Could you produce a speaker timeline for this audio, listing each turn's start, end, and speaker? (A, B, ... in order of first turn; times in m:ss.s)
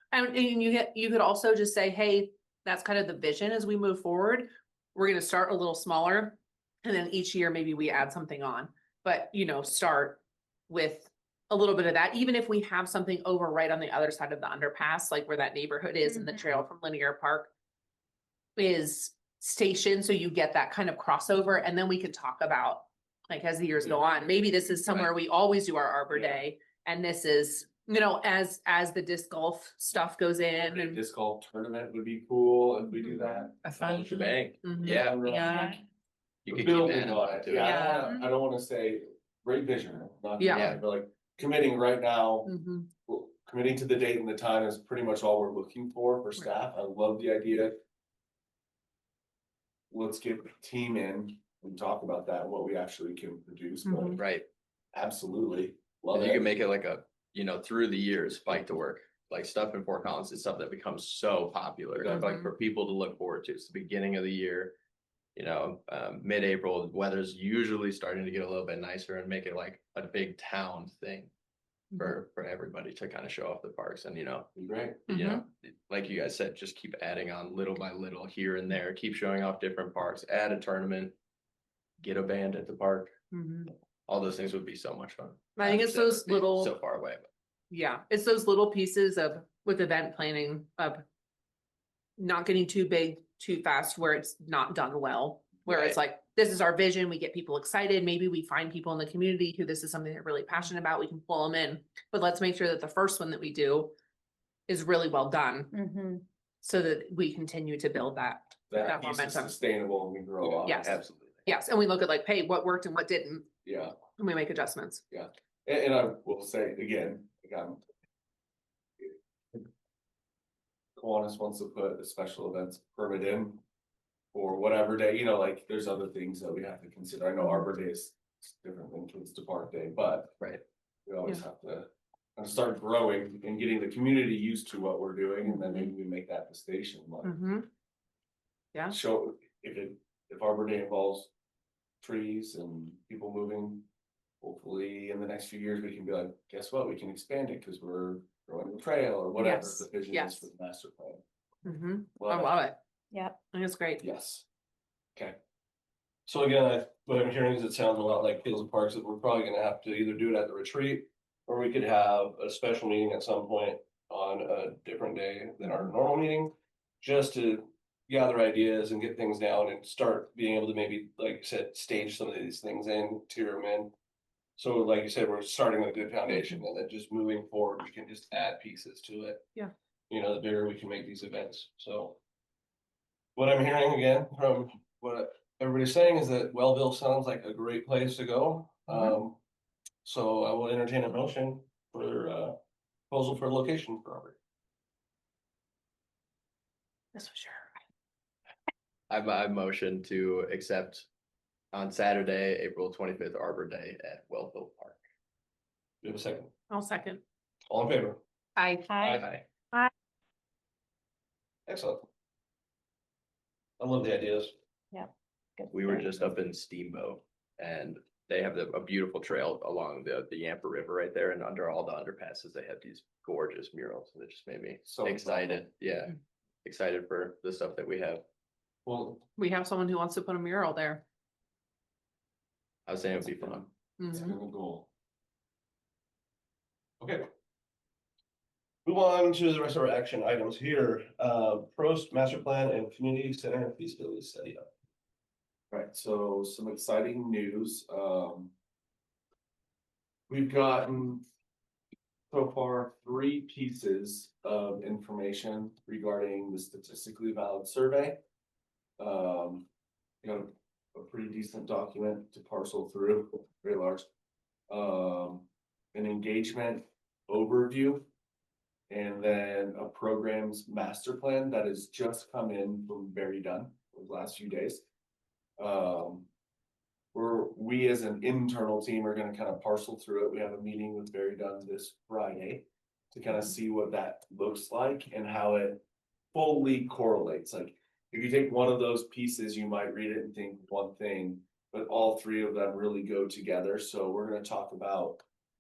0:00.1-0:17.5 A
0:18.6-0:31.0 A
0:26.1-0:26.4 B
0:30.6-0:33.6 B
0:33.6-0:34.4 C
0:33.8-0:35.3 D
0:34.6-0:35.7 A
0:34.8-0:35.7 B
0:35.2-0:35.8 C
0:35.5-0:35.8 E
0:36.4-0:37.8 D
0:36.5-0:42.5 B
0:37.6-0:38.2 C
0:40.4-0:40.7 A
0:40.5-0:40.8 D
0:42.5-0:42.9 A
0:43.1-0:47.8 B
0:49.9-0:54.2 B
0:53.8-0:54.2 A
0:54.2-0:54.5 D
0:54.9-0:56.5 B
0:56.1-1:04.7 D
1:02.1-1:02.5 A
1:05.4-1:11.3 D
1:11.9-1:12.2 A
1:12.0-1:14.5 D
1:14.6-1:15.0 B
1:15.1-1:21.2 D
1:15.1-1:15.4 A
1:22.0-1:23.1 D
1:23.3-1:23.7 A
1:24.1-1:27.3 D
1:25.6-1:26.7 A
1:27.7-1:31.0 A
1:32.2-1:43.9 A
1:35.7-1:36.0 D
1:44.7-1:45.8 A
1:45.7-1:46.2 E
1:46.6-1:49.6 A
1:48.7-1:51.0 B
1:50.4-1:51.4 D
1:50.7-1:53.5 A
1:53.6-1:54.0 B
1:54.2-1:55.0 A
1:55.1-1:57.8 B
2:01.0-2:03.6 B
2:04.3-2:10.4 B
2:11.1-2:17.4 B
2:15.5-2:15.9 A
2:17.2-2:17.7 A
2:18.9-2:21.3 B
2:22.0-2:23.9 B
2:24.4-2:31.2 B
2:29.4-2:30.5 A
2:31.6-2:32.8 A
2:32.2-2:32.6 B
2:33.5-2:34.0 A
2:34.0-2:34.5 B
2:36.3-2:53.9 F
2:54.6-2:59.5 F
2:56.3-2:56.6 A
3:00.1-3:02.2 F
3:03.4-3:09.4 F
3:10.0-3:12.6 F
3:13.1-3:14.4 F
3:17.2-3:17.7 A
3:19.1-3:21.1 D
3:21.7-3:25.0 D
3:26.0-3:26.5 F
3:26.7-3:27.2 A
3:27.7-3:28.2 F
3:28.6-3:28.9 A
3:28.9-3:29.9 E
3:29.0-3:29.3 F
3:31.7-3:32.1 F
3:33.8-3:34.5 F
3:34.9-3:36.1 E
3:35.7-3:48.2 D
3:44.9-3:45.7 B
3:48.9-3:49.2 B
3:49.4-3:51.0 A
3:52.9-3:53.7 D
3:54.0-3:54.4 A
3:54.1-3:54.9 B
3:58.9-4:04.6 F
4:05.7-4:08.5 B
4:10.3-4:11.2 B
4:12.3-4:18.2 B
4:19.0-4:19.7 B
4:20.2-4:24.1 B
4:24.7-4:28.1 B
4:28.9-4:34.9 B
4:35.6-4:36.3 B
4:37.1-4:55.2 B